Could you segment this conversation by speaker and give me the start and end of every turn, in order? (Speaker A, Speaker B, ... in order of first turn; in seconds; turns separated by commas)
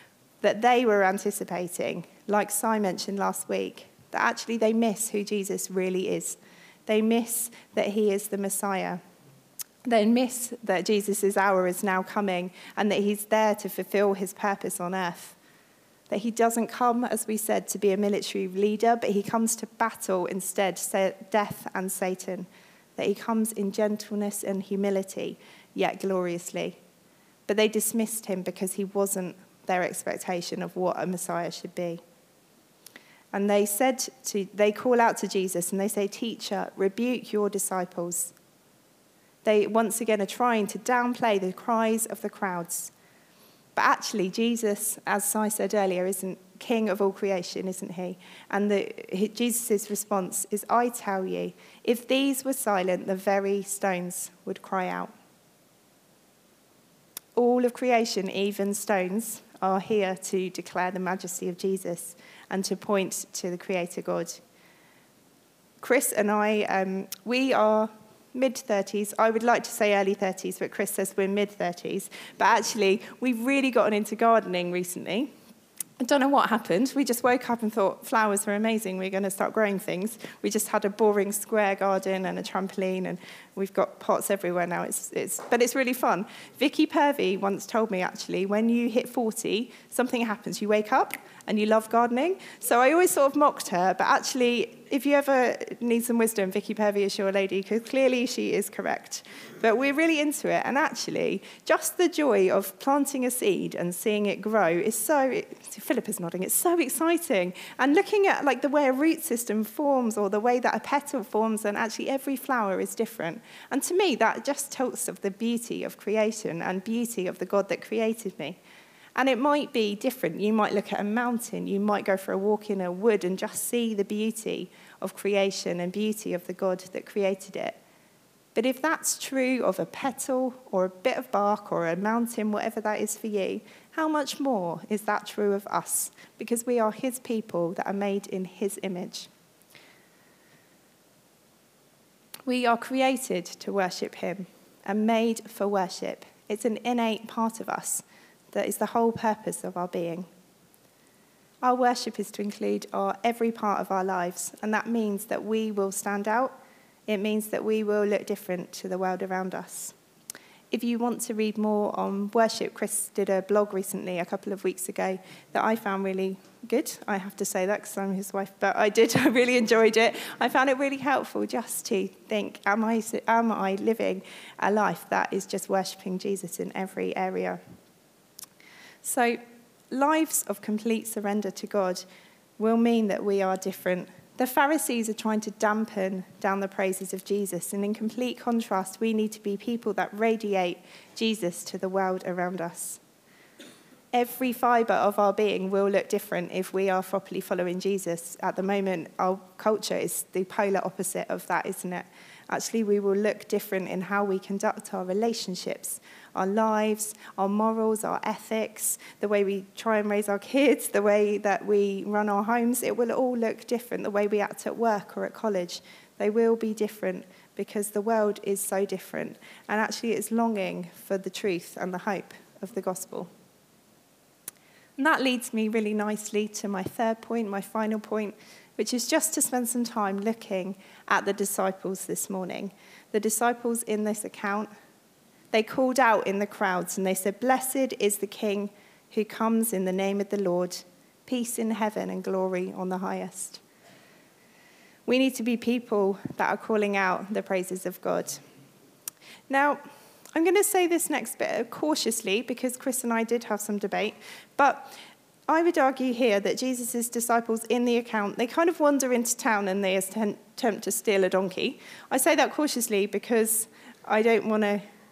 Speaker A: 0.4-9.0, Speaker A: 9.9-15.4, Speaker A: 16.1-26.8, Speaker A: 27.5-32.0, Speaker A: 33.3-38.3, Speaker A: 39.5-42.9, Speaker A: 43.8-55.1, Speaker A: 57.4-64.4, Speaker A: 65.8-75.3, Speaker A: 76.0-118.6, Speaker A: 119.2-127.8, Speaker A: 128.6-139.3, Speaker A: 142.5-150.3, Speaker A: 151.6-156.6, Speaker A: 157.1-159.9, Speaker A: 160.7-177.6, Speaker A: 179.0-179.4, Speaker A: 179.9-182.0, Speaker A: 182.6-193.0, Speaker A: 194.1-223.3, Speaker A: 225.0-234.7, Speaker A: 235.5-243.6, Speaker A: 245.1-248.4, Speaker A: 249.5-249.8, Speaker A: 250.3-254.9, Speaker A: 255.5-264.8